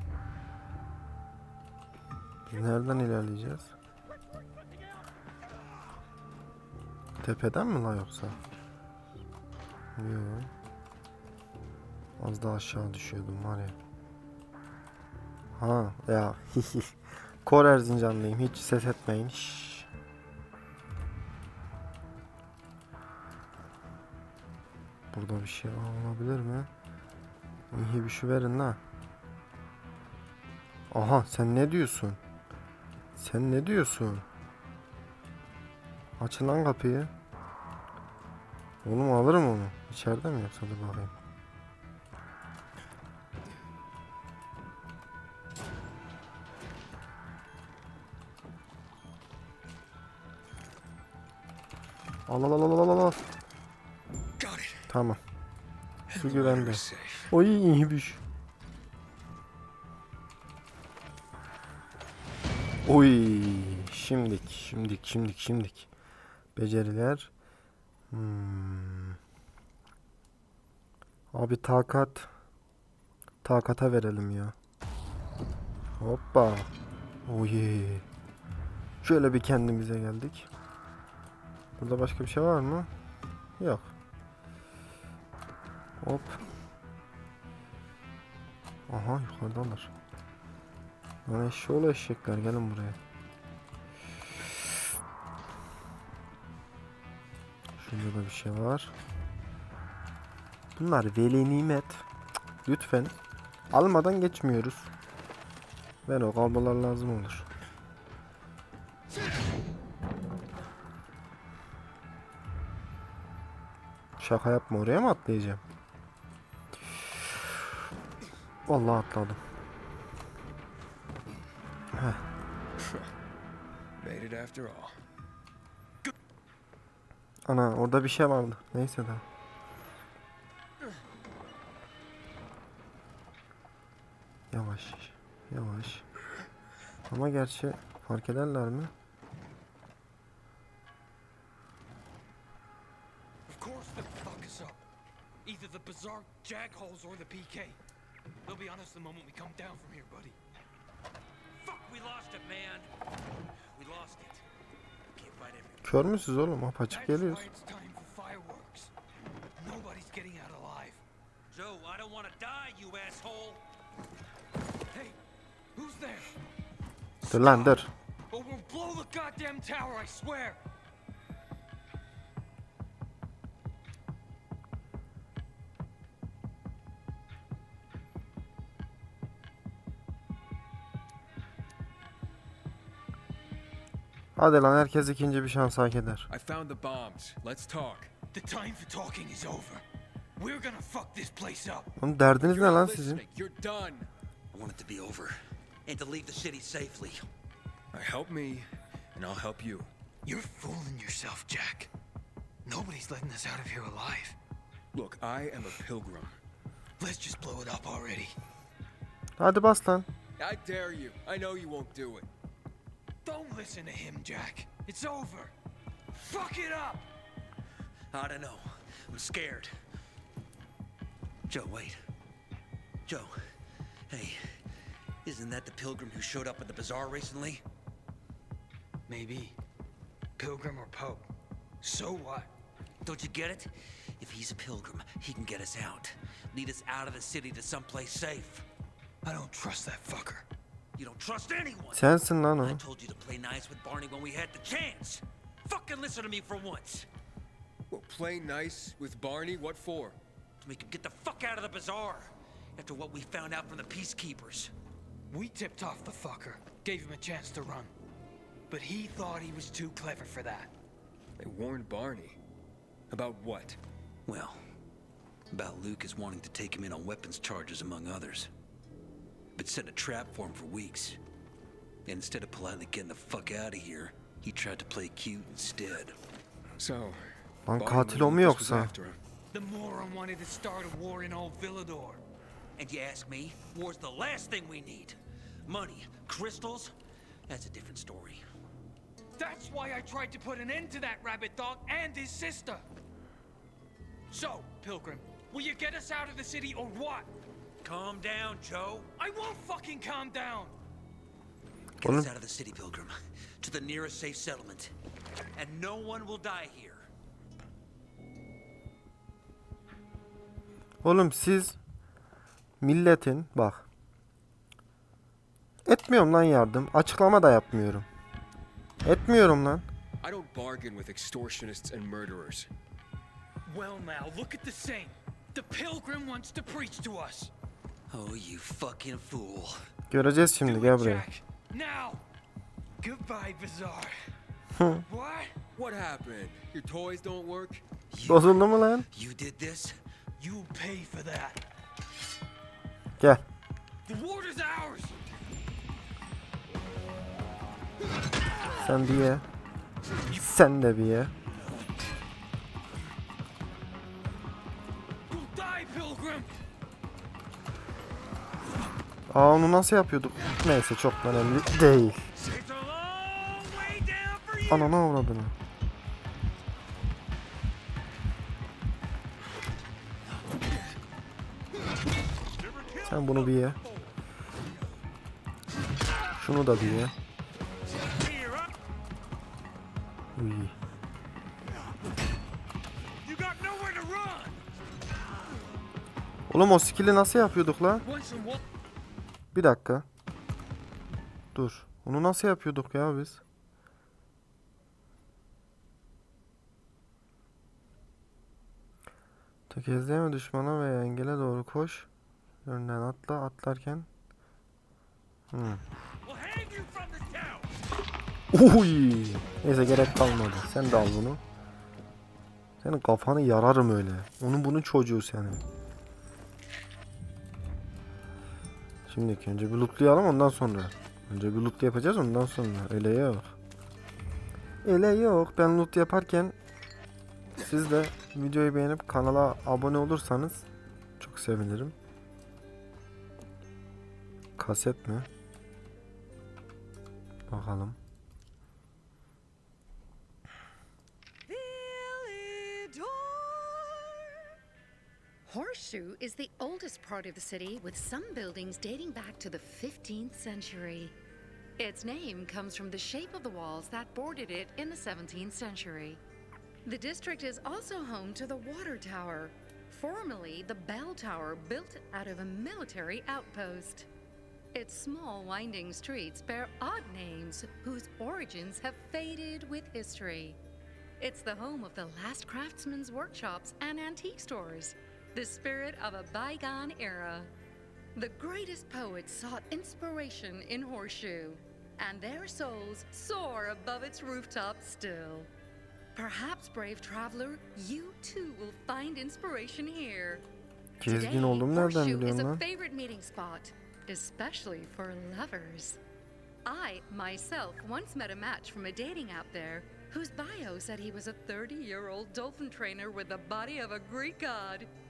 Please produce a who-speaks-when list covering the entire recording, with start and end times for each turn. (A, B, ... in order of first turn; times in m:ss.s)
0:02.4-0:03.7 A
0:07.2-0:08.4 A
0:10.0-0:10.5 A
0:12.2-0:13.8 A
0:15.6-0:19.9 A
0:25.1-0:26.7 A
0:27.7-0:28.8 A
0:30.9-0:32.2 A
0:33.2-0:34.2 A
0:36.2-0:37.1 A
0:38.8-0:41.1 A
0:52.3-0:53.2 A
0:54.4-0:54.9 B
0:54.9-0:55.2 A
0:56.1-0:57.3 B
0:56.2-0:58.2 A
1:02.8-1:05.9 A
1:06.5-1:07.3 A
1:08.1-1:09.2 A
1:11.3-1:12.3 A
1:13.4-1:14.6 A
1:16.0-1:16.7 A
1:17.2-1:18.0 A
1:19.0-1:20.5 A
1:21.8-1:22.9 A
1:23.6-1:23.9 A
1:26.0-1:26.4 A
1:28.9-1:29.9 A
1:31.2-1:33.0 A
1:37.8-1:38.9 A
1:40.8-1:42.0 A
1:42.6-1:43.2 A
1:43.7-1:44.9 A
1:46.0-1:47.4 A
1:54.2-1:55.6 A
1:58.7-1:59.4 A
2:01.9-2:02.2 A
2:04.0-2:05.0 B
2:07.4-2:09.2 A
2:14.5-2:16.0 A
2:17.1-2:18.9 A
2:23.5-2:24.8 C
2:25.4-2:27.8 C
2:28.4-2:30.4 C
2:31.6-2:32.9 D
2:33.7-2:34.4 D
2:35.1-2:36.0 D
2:35.8-2:37.4 A
2:36.9-2:38.9 C
2:39.6-2:41.0 C
2:41.5-2:43.6 D
2:44.9-2:45.2 C
2:45.7-2:46.4 C
2:47.2-2:50.6 C
2:47.3-2:47.9 A
3:04.4-3:06.3 A
3:06.3-3:08.1 B
3:08.3-3:09.8 C
3:10.4-3:11.9 C
3:12.0-3:13.2 A
3:12.5-3:14.1 B
3:14.5-3:17.2 D
3:17.9-3:19.9 B
3:20.2-3:21.9 C
3:22.6-3:24.4 C
3:24.9-3:26.4 B
3:27.0-3:28.3 C
3:29.4-3:30.1 A
3:30.4-3:32.3 B
3:33.2-3:35.5 C
3:36.1-3:37.1 C
3:38.1-3:39.7 D
3:41.5-3:42.0 D
3:43.0-3:43.3 D
3:44.1-3:44.4 D
3:45.2-3:47.6 D
3:49.1-3:49.6 C
3:50.4-3:51.3 C
3:51.8-3:52.5 C
3:53.0-3:58.6 D
3:59.2-4:00.4 C
4:01.0-4:07.1 D
4:01.9-4:02.8 A
4:07.9-4:10.2 B
4:10.6-4:14.7 D
4:15.3-4:17.9 C
4:18.7-4:20.7 C
4:21.4-4:22.4 B
4:23.1-4:23.8 B
4:24.2-4:24.6 D
4:25.5-4:28.5 D
4:29.6-4:31.2 D
4:32.0-4:36.1 D
4:36.8-4:37.2 B
4:37.6-4:38.9 A
4:37.8-4:39.2 B
4:39.5-4:42.2 C
4:42.8-4:46.9 D
4:47.5-4:48.4 D
4:49.4-4:52.8 C
4:54.3-4:57.3 C
4:57.8-4:59.1 D
4:59.2-5:00.7 C
5:02.0-5:04.9 D
5:02.0-5:02.3 A
5:05.5-5:07.0 D
5:11.0-5:11.8 A
5:12.8-5:13.8 A
5:15.8-5:18.1 A
5:19.0-5:19.8 A
5:20.2-5:22.7 B
5:23.6-5:27.5 C
5:28.1-5:29.8 D
5:30.1-5:31.2 A
5:30.6-5:32.2 C
5:33.0-5:34.1 C
5:34.7-5:35.0 A
5:35.1-5:35.6 C
5:35.7-5:37.8 B
5:38.1-5:40.0 D
5:38.2-5:39.1 A
5:40.4-5:41.6 C
5:43.2-5:43.4 A
5:44.0-5:45.3 C
5:48.8-5:49.4 A
5:50.3-5:51.3 A
5:55.3-5:56.5 C
5:59.3-6:02.2 A
6:02.4-6:04.9 C
6:04.7-6:05.5 A
6:12.6-6:14.1 C
6:13.0-6:13.8 A
6:16.4-6:17.1 A
6:18.0-6:18.7 C
6:20.4-6:20.7 A
6:23.2-6:24.6 C
6:26.5-6:28.0 A
6:28.0-6:28.6 C
6:29.5-6:30.0 A
6:31.5-6:33.4 A
6:39.7-6:42.1 A
6:42.6-6:44.1 A
6:45.5-6:45.8 A
6:46.2-6:47.7 D
6:48.5-6:51.4 A
6:52.8-6:55.6 A
6:59.1-7:03.5 A
7:04.8-7:06.6 A
7:07.6-7:10.7 A
7:11.2-7:11.9 A
7:14.6-7:15.3 A
7:17.5-7:18.0 A
7:25.5-7:31.1 E
7:31.8-7:36.2 E
7:36.8-7:44.1 E
7:44.7-7:50.6 E
7:51.2-7:57.5 E
7:58.1-8:05.5 E
8:06.1-8:10.4 E
8:11.0-8:12.6 A
8:11.0-8:16.0 E
8:16.6-8:24.9 E